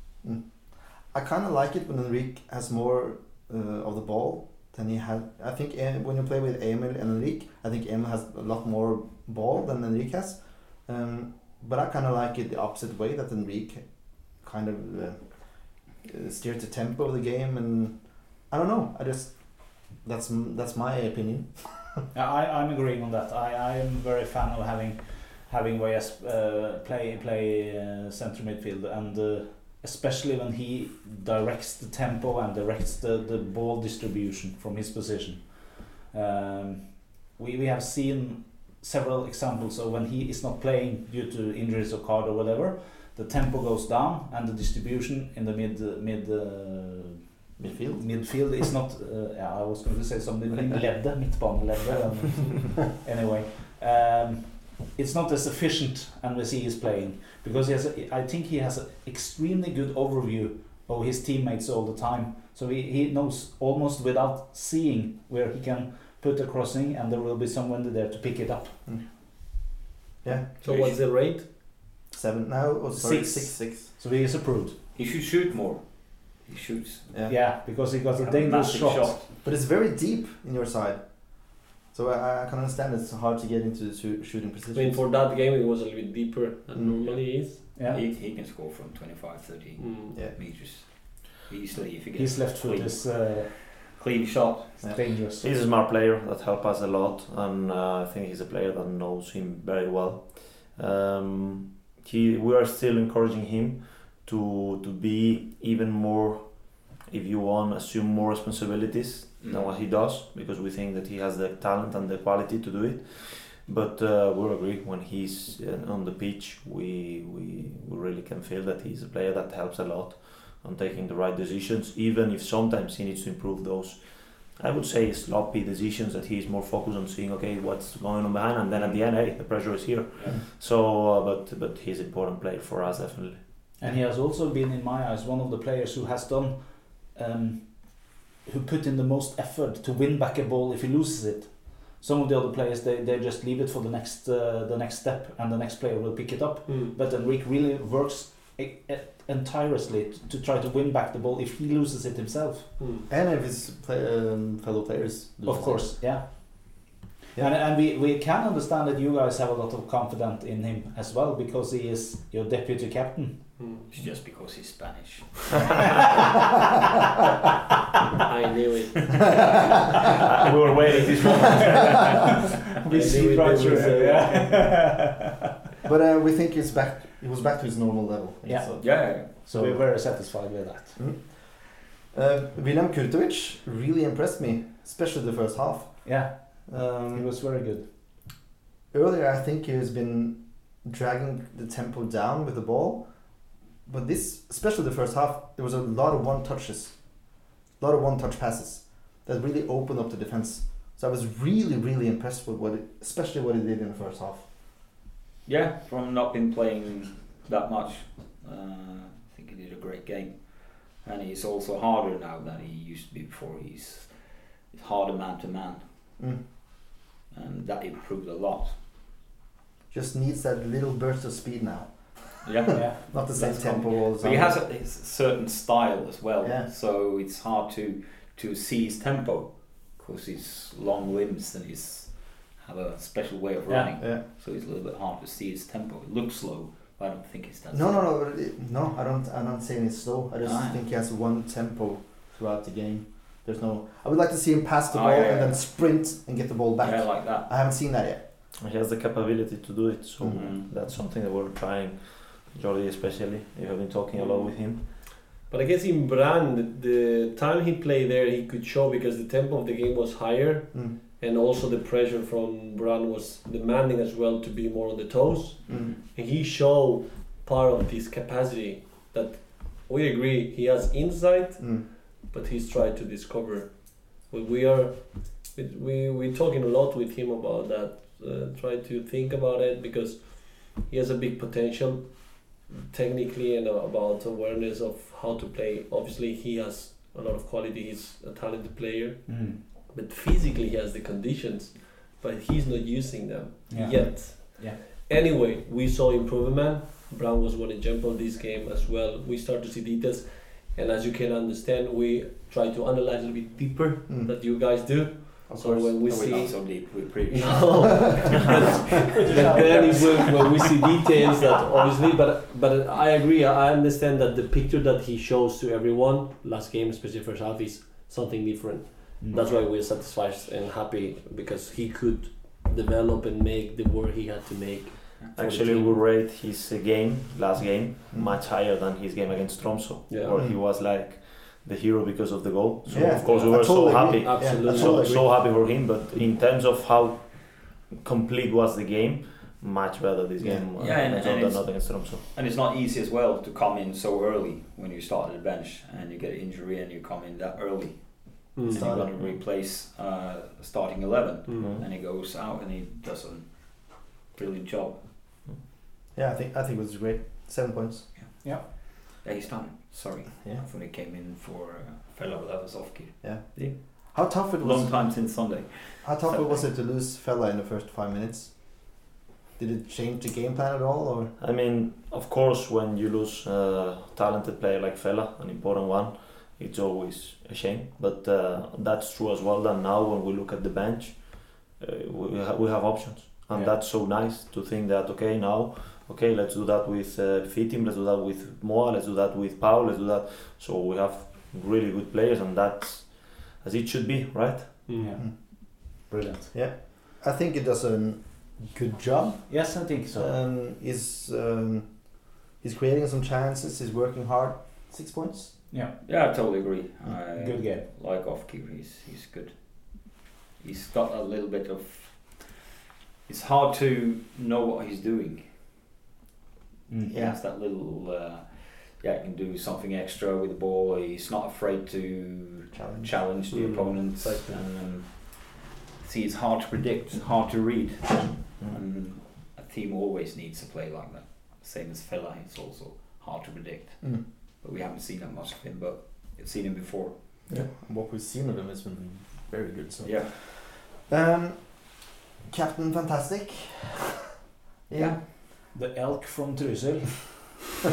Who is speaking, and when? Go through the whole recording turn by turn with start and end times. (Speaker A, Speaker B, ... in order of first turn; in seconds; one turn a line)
Speaker A: 0.2-22.0
Speaker B: 22.1-47.3
Speaker A: 47.6-48.4
Speaker B: 48.0-68.8
Speaker A: 68.8-69.7
Speaker A: 70.2-70.5
Speaker C: 70.6-71.0
Speaker D: 70.6-71.5
Speaker A: 72.1-74.0
Speaker B: 72.9-74.9
Speaker C: 74.9-77.5
Speaker A: 77.1-77.4
Speaker B: 77.2-79.2
Speaker C: 78.2-79.2
Speaker A: 79.2-85.0
Speaker D: 84.7-87.6
Speaker C: 87.0-95.0
Speaker B: 87.7-88.0
Speaker D: 89.8-90.2
Speaker B: 92.1-93.8
Speaker B: 94.8-95.5
Speaker E: 95.4-133.4
Speaker C: 109.4-109.7
Speaker C: 128.7-129.1
Speaker B: 133.8-152.8
Speaker D: 146.7-146.9
Speaker D: 152.8-153.1
Speaker A: 153.1-156.3
Speaker B: 155.4-163.6
Speaker D: 163.6-163.9
Speaker C: 163.9-165.8
Speaker D: 168.2-169.5
Speaker E: 170.3-172.3
Speaker B: 171.4-172.2
Speaker B: 172.8-175.2
Speaker D: 172.8-174.7
Speaker A: 175.8-180.2
Speaker B: 178.4-181.0
Speaker C: 178.8-179.4
Speaker A: 180.9-187.3
Speaker B: 186.0-188.2
Speaker A: 188.9-204.5
Speaker C: 205.4-215.9
Speaker A: 216.2-216.5
Speaker C: 217.3-218.8
Speaker A: 219.9-224.7
Speaker C: 222.4-223.2
Speaker B: 222.7-223.9
Speaker C: 224.1-238.1
Speaker A: 226.4-226.7
Speaker B: 233.7-234.1
Speaker A: 234.0-234.2
Speaker A: 237.7-248.2
Speaker C: 240.4-240.8
Speaker C: 244.9-245.7
Speaker C: 246.8-247.5
Speaker E: 248.6-254.8
Speaker C: 250.3-250.7
Speaker D: 254.3-326.0
Speaker A: 265.7-265.9
Speaker C: 265.7-265.9
Speaker A: 271.6-271.8
Speaker B: 289.2-289.6
Speaker B: 293.7-294.8
Speaker A: 304.1-304.9
Speaker A: 305.5-306.6
Speaker C: 306.1-310.6
Speaker B: 309.2-310.5
Speaker E: 325.3-342.3
Speaker A: 328.1-328.4
Speaker D: 330.1-330.4
Speaker A: 330.3-330.6
Speaker A: 332.9-335.4
Speaker D: 333.2-335.2
Speaker C: 340.8-355.1
Speaker D: 348.5-348.9
Speaker A: 348.7-349.2
Speaker D: 351.4-351.8
Speaker A: 356.1-358.1
Speaker C: 358.1-366.7
Speaker B: 358.4-358.8
Speaker A: 363.2-369.0
Speaker A: 369.6-371.3
Speaker E: 371.4-394.9
Speaker D: 394.9-395.1
Speaker B: 395.0-396.5
Speaker A: 395.2-405.6
Speaker B: 399.5-400.3
Speaker B: 405.7-406.0
Speaker C: 406.0-412.6
Speaker B: 407.3-407.9
Speaker C: 413.2-415.6
Speaker B: 416.9-417.1
Speaker C: 417.1-437.4
Speaker A: 417.1-417.4
Speaker A: 422.7-423.2
Speaker D: 423.5-424.7
Speaker A: 437.5-444.1
Speaker C: 440.0-440.3
Speaker A: 444.9-445.4
Speaker C: 444.9-445.2
Speaker B: 445.7-447.6